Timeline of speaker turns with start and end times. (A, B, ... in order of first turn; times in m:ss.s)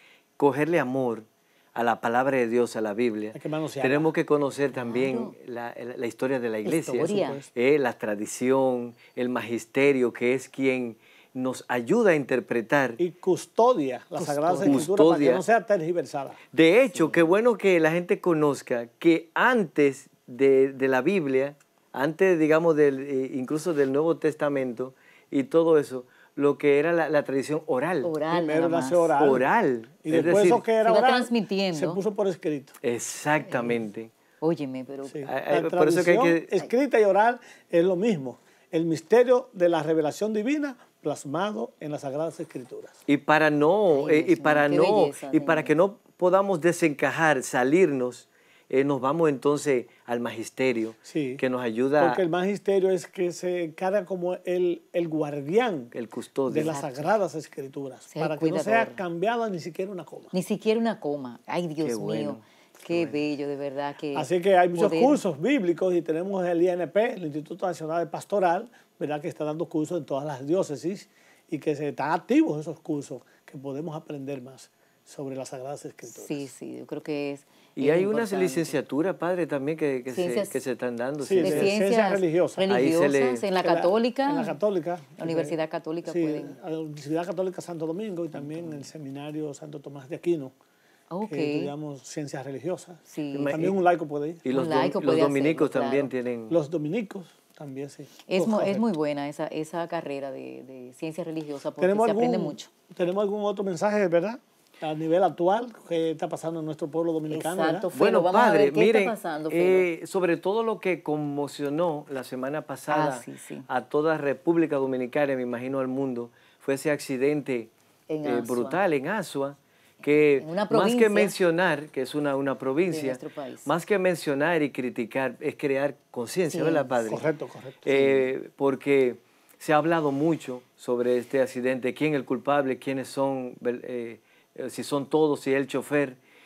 0:00.4-0:13.0 A
0:03.3-0:04.1 B
0:04.7-0:05.3 C
0:06.6-0:07.4 C
0:06.9-0:07.5 B
0:13.0-0:16.4 B
0:14.2-0:14.9 C
0:14.6-0:15.4 A
0:16.5-0:28.2 A
0:28.0-0:29.1 C
0:28.3-0:29.4 B
0:29.2-0:30.6 A
0:30.0-0:32.7 B
0:30.8-0:32.0 C
0:32.8-0:34.1 A
0:33.5-0:33.8 C
0:34.4-0:35.3 C
0:35.1-0:43.0 B
0:35.3-0:36.5 A
0:43.1-0:52.2 A
0:43.9-0:45.7 C
0:51.0-0:51.4 B
0:52.0-0:55.9 B
0:55.9-0:56.8 A
0:56.5-1:00.3 B
0:56.6-0:57.1 C
0:58.1-0:59.0 C
1:00.3-1:05.2 C
1:01.8-1:03.2 A
1:04.1-1:16.5 B
1:16.1-1:18.8 C
1:17.8-1:21.7 A
1:20.1-1:20.6 C
1:21.2-1:22.7 B
1:21.4-1:24.6 C
1:22.7-1:23.5 A
1:23.6-1:30.5 B
1:25.2-1:26.6 C
1:28.3-1:28.9 C
1:31.1-1:31.7 C
1:31.3-1:34.4 B
1:33.1-1:33.7 C
1:33.3-1:33.8 A
1:34.4-1:36.6 A
1:34.5-1:36.1 C
1:36.5-1:38.8 B
1:38.3-1:42.7 C
1:41.8-1:47.9 B
1:47.3-1:49.8 C
1:47.9-1:57.7 A
1:52.9-1:53.6 C
1:58.1-1:58.8 C
1:58.2-2:07.2 A
2:00.1-2:01.3 C
2:02.9-2:03.7 C
2:06.5-2:06.9 C
2:07.0-2:08.3 B
2:07.8-2:16.2 A